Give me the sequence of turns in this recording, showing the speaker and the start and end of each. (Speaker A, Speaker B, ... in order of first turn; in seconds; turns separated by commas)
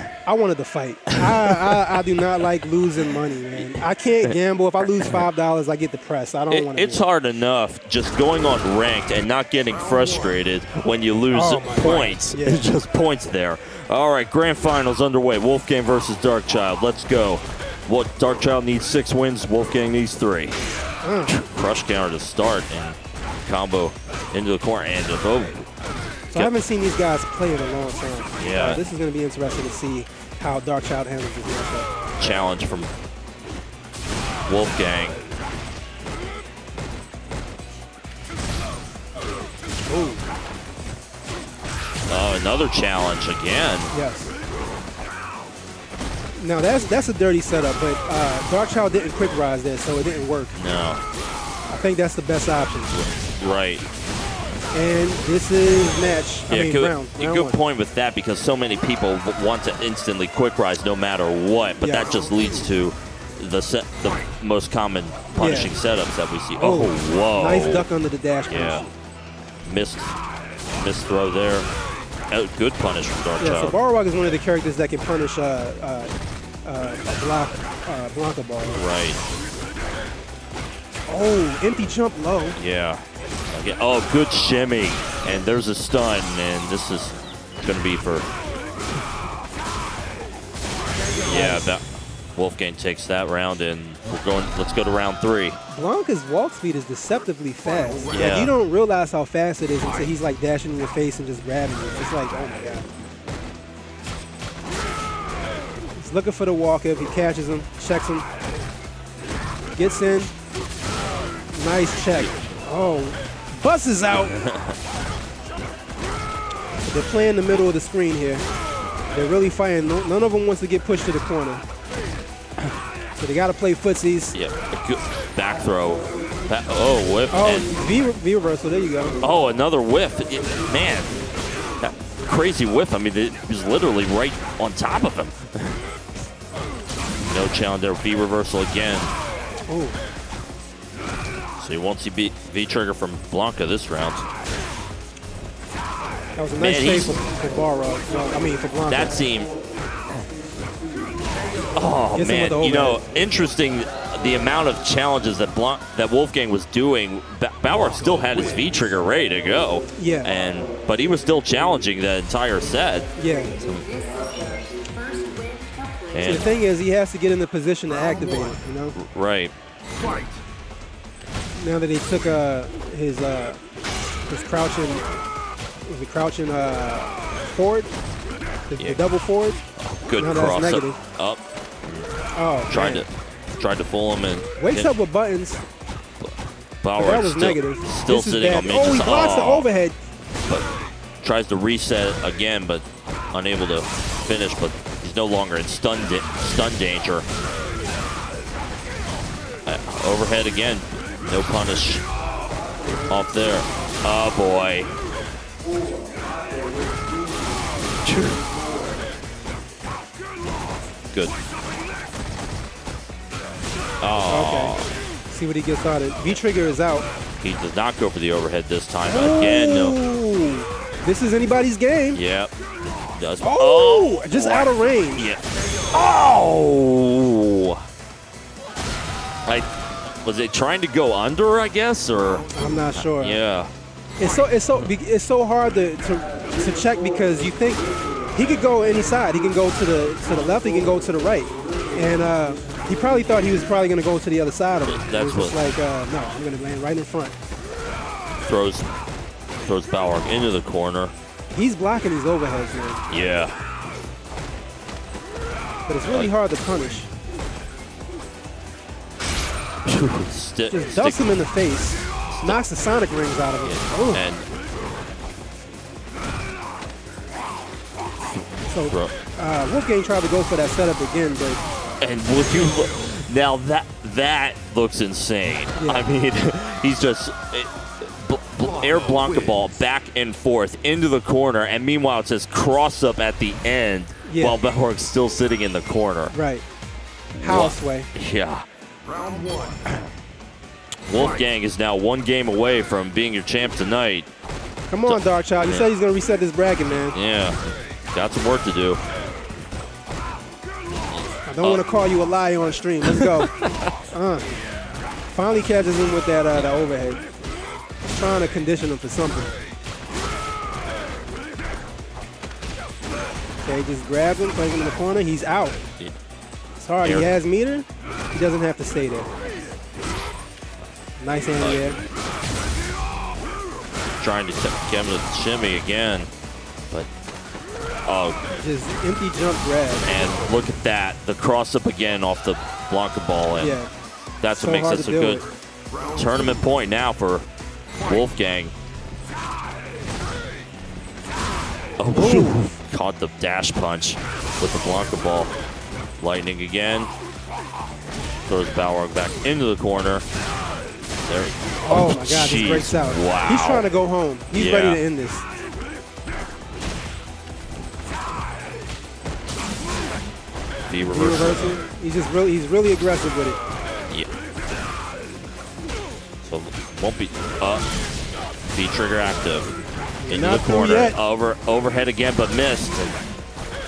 Speaker A: 0.2-7.0, Speaker B: 1.1-2.5, Speaker B: 3.5-5.2, Speaker B: 6.5-20.6, Speaker A: 11.3-12.7, Speaker A: 21.0-21.3, Speaker B: 21.3-25.7, Speaker A: 26.3-31.9, Speaker B: 28.4-28.8, Speaker B: 32.2-32.9, Speaker B: 34.5-35.2, Speaker A: 39.9-40.2, Speaker B: 42.1-43.9, Speaker A: 43.9-44.3, Speaker A: 46.4-50.6, Speaker B: 50.5-51.0, Speaker A: 51.7-52.9, Speaker B: 52.9-53.8, Speaker A: 54.7-57.6, Speaker B: 56.5-67.8, Speaker A: 61.8-62.2, Speaker A: 65.3-65.7, Speaker A: 66.6-68.8, Speaker B: 68.5-68.9, Speaker B: 69.7-70.2, Speaker B: 70.8-71.7, Speaker B: 72.3-73.8, Speaker A: 73.4-76.1, Speaker A: 76.6-78.8, Speaker B: 78.7-79.2, Speaker A: 81.1-82.6, Speaker B: 82.5-88.3, Speaker B: 91.2-91.8, Speaker A: 91.2-91.7, Speaker B: 92.3-95.6, Speaker A: 95.7-102.9, Speaker B: 98.1-98.5, Speaker A: 106.0-108.2, Speaker A: 109.8-110.3, Speaker A: 111.5-114.4, Speaker B: 114.2-114.8, Speaker A: 116.9-118.5, Speaker A: 119.1-121.6, Speaker A: 123.2-124.3, Speaker B: 124.3-127.7, Speaker A: 127.3-129.2, Speaker B: 129.2-131.2, Speaker B: 131.8-135.8, Speaker B: 137.2-139.1, Speaker A: 139.7-140.0, Speaker B: 141.6-144.2, Speaker A: 146.4-149.1, Speaker B: 146.6-147.2, Speaker B: 148.9-149.5, Speaker B: 151.8-163.9, Speaker A: 152.1-153.0, Speaker A: 159.9-160.3, Speaker A: 163.2-163.5, Speaker B: 166.1-166.5, Speaker A: 166.2-168.9, Speaker B: 168.9-169.5, Speaker A: 171.5-173.6, Speaker A: 174.3-175.0, Speaker A: 175.8-177.9, Speaker A: 178.7-179.6, Speaker B: 179.8-182.1, Speaker A: 180.2-181.0, Speaker A: 182.3-183.0, Speaker B: 182.7-184.9, Speaker A: 184.6-185.6, Speaker B: 186.2-189.7, Speaker A: 187.0-189.9, Speaker B: 191.2-197.2, Speaker B: 199.7-202.0, Speaker B: 203.1-204.9, Speaker B: 208.0-208.4, Speaker B: 214.0-214.9, Speaker A: 214.3-214.8, Speaker A: 215.3-217.1, Speaker B: 217.4-220.0, Speaker A: 219.1-222.2, Speaker B: 222.1-222.5, Speaker B: 223.1-227.8, Speaker A: 223.4-225.2, Speaker B: 229.4-233.7, Speaker A: 232.5-233.4, Speaker A: 234.2-247.3, Speaker B: 244.9-245.6, Speaker B: 248.4-248.9, Speaker B: 249.6-251.1, Speaker A: 251.5-253.3, Speaker B: 253.1-253.5, Speaker A: 255.9-257.1, Speaker B: 259.8-261.3, Speaker A: 260.7-264.2, Speaker B: 262.3-262.6, Speaker B: 263.6-264.5, Speaker B: 268.3-269.1, Speaker A: 268.7-271.6, Speaker B: 272.0-286.3, Speaker A: 275.7-276.1, Speaker A: 284.2-284.6, Speaker A: 286.3-286.6, Speaker B: 287.4-288.6, Speaker A: 287.4-288.1, Speaker B: 291.1-294.3, Speaker A: 294.9-297.1, Speaker B: 295.1-295.9, Speaker B: 297.0-299.0, Speaker B: 301.1-301.8, Speaker A: 301.4-303.5, Speaker B: 303.0-303.9, Speaker A: 304.1-304.5, Speaker A: 305.3-307.2, Speaker A: 308.1-309.5, Speaker A: 313.6-315.8, Speaker A: 316.8-319.3, Speaker B: 317.0-317.3, Speaker A: 321.2-322.0, Speaker B: 321.6-321.9, Speaker B: 324.2-326.3, Speaker B: 328.1-328.5, Speaker A: 328.6-330.3, Speaker B: 330.0-333.8, Speaker A: 333.5-333.9, Speaker B: 334.4-335.4, Speaker A: 334.6-335.4, Speaker B: 336.1-337.4, Speaker B: 338.0-338.7, Speaker B: 342.0-345.5, Speaker A: 342.1-342.6, Speaker B: 346.2-347.1, Speaker B: 348.5-350.2, Speaker B: 351.2-353.9, Speaker A: 351.8-355.4, Speaker B: 354.5-355.0, Speaker B: 360.9-361.8, Speaker A: 361.1-363.6, Speaker B: 366.4-367.8, Speaker B: 368.7-369.7, Speaker A: 370.2-371.1, Speaker B: 370.3-373.2